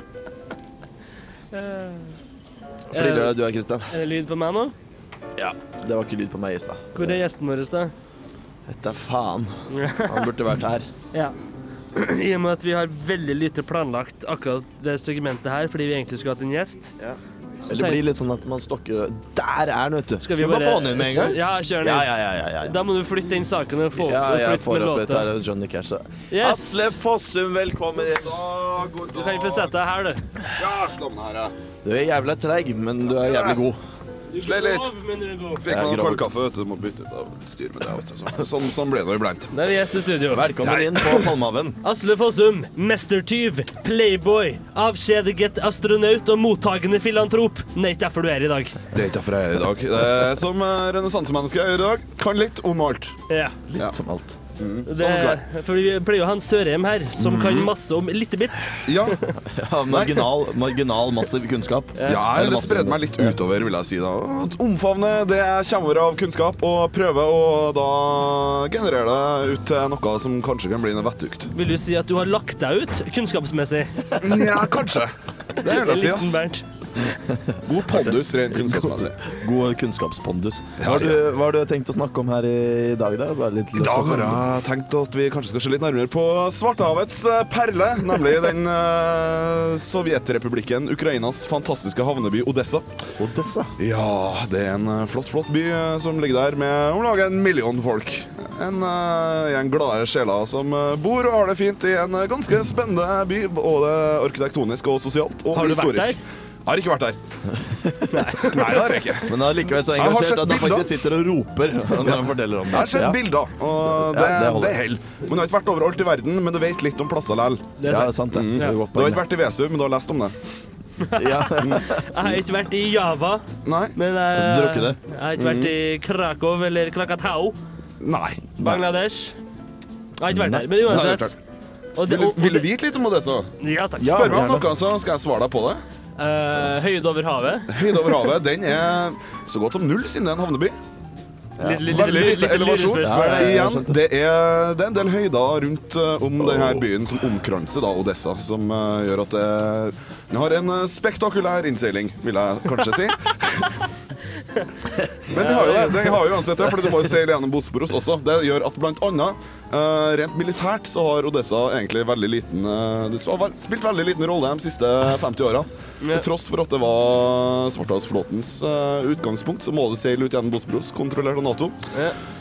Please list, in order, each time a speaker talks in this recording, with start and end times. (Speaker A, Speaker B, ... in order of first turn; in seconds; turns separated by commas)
Speaker A: 1.5-2.2, Speaker B: 2.9-3.9, Speaker A: 2.9-4.7, Speaker B: 5.3-7.2, Speaker A: 6.9-7.9, Speaker B: 8.7-10.9, Speaker A: 9.7-10.3, Speaker A: 11.9-16.9, Speaker B: 17.0-22.8, Speaker A: 17.7-18.0, Speaker A: 20.2-22.1, Speaker A: 22.6-25.3, Speaker B: 23.9-28.4, Speaker A: 26.3-27.0, Speaker C: 28.2-29.7, Speaker A: 29.1-30.3, Speaker C: 30.5-31.5, Speaker B: 31.8-33.8, Speaker C: 33.2-33.6, Speaker A: 34.3-35.6, Speaker C: 34.4-34.9, Speaker C: 35.6-39.5, Speaker B: 35.6-36.2, Speaker A: 39.5-40.5, Speaker B: 40.3-41.8, Speaker C: 40.6-41.2, Speaker A: 41.8-48.8, Speaker C: 48.9-53.2, Speaker A: 53.3-53.6, Speaker B: 53.7-54.4, Speaker C: 54.6-55.4, Speaker A: 54.9-59.2, Speaker C: 57.3-57.6, Speaker C: 58.8-59.3, Speaker B: 59.3-63.3, Speaker C: 59.9-60.3, Speaker A: 62.0-62.2, Speaker C: 62.0-71.5, Speaker A: 71.5-74.1, Speaker C: 74.2-76.4, Speaker A: 75.6-76.6, Speaker B: 77.1-84.4, Speaker C: 77.7-79.2, Speaker C: 80.8-81.2, Speaker C: 83.7-92.8, Speaker B: 93.2-93.8, Speaker C: 93.8-107.2, Speaker A: 105.5-106.2, Speaker B: 107.5-108.3, Speaker A: 108.1-109.1, Speaker C: 108.4-109.4, Speaker B: 109.2-113.2, Speaker C: 109.9-110.9, Speaker C: 112.0-117.8, Speaker B: 113.9-114.8, Speaker A: 117.8-118.8, Speaker B: 117.8-119.2, Speaker C: 118.3-120.3, Speaker A: 121.0-127.6, Speaker B: 121.1-122.0, Speaker C: 123.6-124.0, Speaker B: 124.3-125.0, Speaker C: 128.0-128.8, Speaker A: 128.6-129.4, Speaker A: 130.2-131.3, Speaker B: 130.3-130.8, Speaker C: 130.8-131.3, Speaker A: 131.9-132.7, Speaker C: 132.0-133.5, Speaker A: 133.6-134.3, Speaker B: 134.0-134.7, Speaker C: 134.0-135.8, Speaker A: 136.2-138.0, Speaker C: 137.7-140.8, Speaker A: 141.6-143.8, Speaker C: 141.7-153.8, Speaker B: 143.0-144.0, Speaker B: 146.4-146.8, Speaker A: 155.3-156.2, Speaker C: 155.3-171.8